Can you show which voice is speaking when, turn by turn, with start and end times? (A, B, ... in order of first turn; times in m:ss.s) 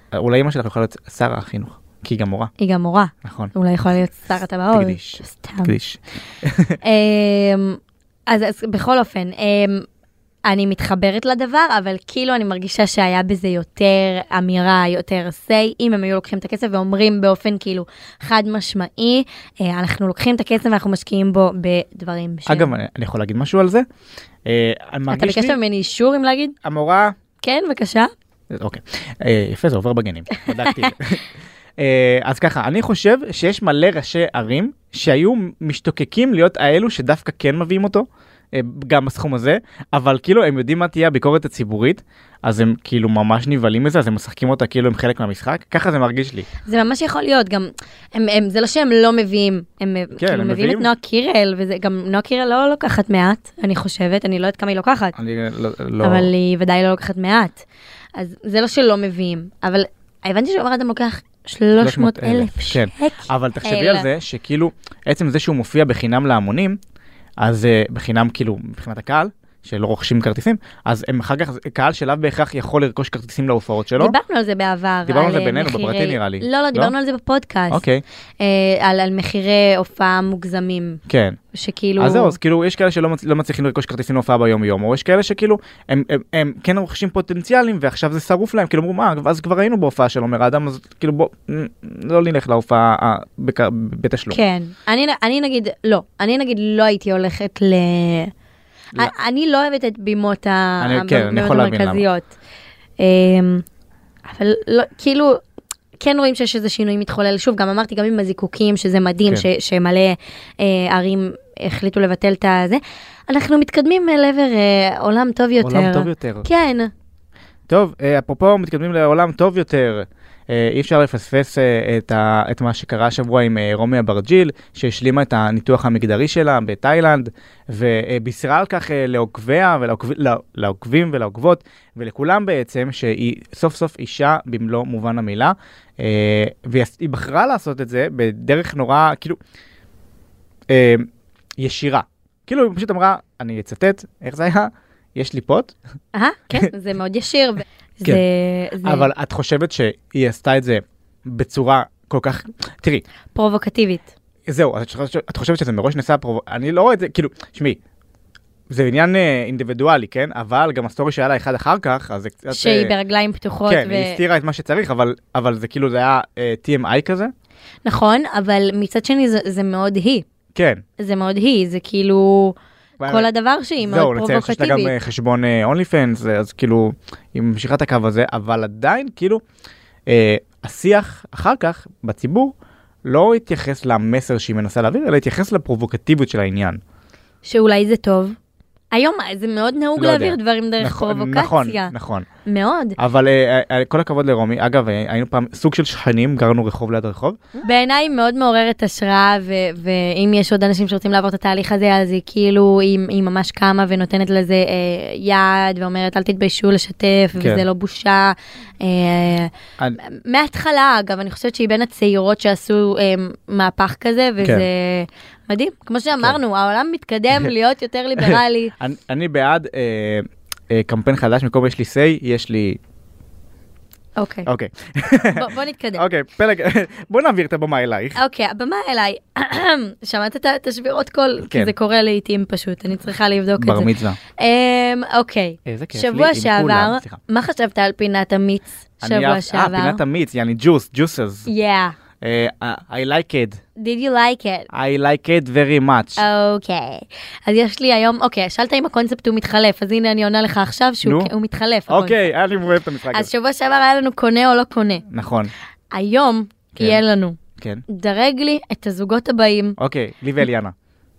0:00.1-0:02.5 A
0:02.6-0:05.7 B
0:03.2-0:03.5 A
0:04.7-0:06.8 A
0:06.8-0:09.9 B
0:10.5-0:22.7 B
0:22.5-0:23.9 A
0:24.4-0:25.6 A
0:25.1-0:26.6 B
0:26.6-0:27.2 A
0:27.4-0:28.1 B
0:28.5-0:31.2 A
0:30.4-0:30.9 B
0:31.8-0:46.5 A
0:46.7-0:55.2 B
0:50.2-0:50.9 A
0:55.2-0:56.3 A
0:56.0-0:57.6 B
0:58.2-1:04.1 B
1:01.8-1:06.8 A
1:07.4-1:14.2 A
1:14.0-1:17.8 B
1:15.1-1:16.9 A
1:17.7-1:18.0 A
1:18.4-1:21.0 B
1:21.1-1:21.4 A
1:21.5-1:22.4 B
1:22.0-1:34.4 A
1:34.3-1:38.3 B
1:39.0-1:42.3 B
1:40.8-1:42.0 A
1:43.0-1:43.6 B
1:44.3-1:45.4 B
1:46.0-1:56.9 B
1:55.6-1:56.5 A
1:57.7-2:19.4 A
2:20.7-2:21.1 A
2:21.6-2:25.7 A
2:26.1-2:29.1 B
2:28.8-2:33.0 A
2:33.3-2:34.1 B
2:34.5-2:37.8 A
2:38.7-2:42.9 A
2:42.5-2:44.2 B
2:43.7-2:47.3 A
2:47.8-2:50.2 B
2:50.6-2:50.8 A
2:51.0-2:54.9 B
2:53.0-2:53.3 A
2:53.8-2:59.4 A
3:00.1-3:06.8 A
3:07.4-3:08.4 B
3:08.9-3:11.9 B
3:10.0-3:12.3 A
3:12.4-3:13.0 B
3:13.0-3:17.4 A
3:17.6-3:38.7 B
3:27.4-3:27.6 A
3:34.4-3:34.7 A
3:38.2-3:42.8 A
3:44.2-3:44.5 B
3:44.5-3:48.2 A
3:45.2-3:46.0 B
3:48.2-4:00.0 B
3:53.6-3:54.2 A
3:55.7-3:57.2 A
3:59.0-4:01.5 A
4:01.5-4:02.0 B
4:02.2-4:03.6 A
4:03.8-4:04.7 B
4:04.7-4:06.2 A
4:06.2-4:12.2 B
4:11.0-4:11.3 A
4:11.9-4:13.3 A
4:13.1-4:15.0 B
4:15.1-4:15.5 A
4:15.9-4:19.8 B
4:17.6-4:17.8 A
4:19.8-4:20.7 A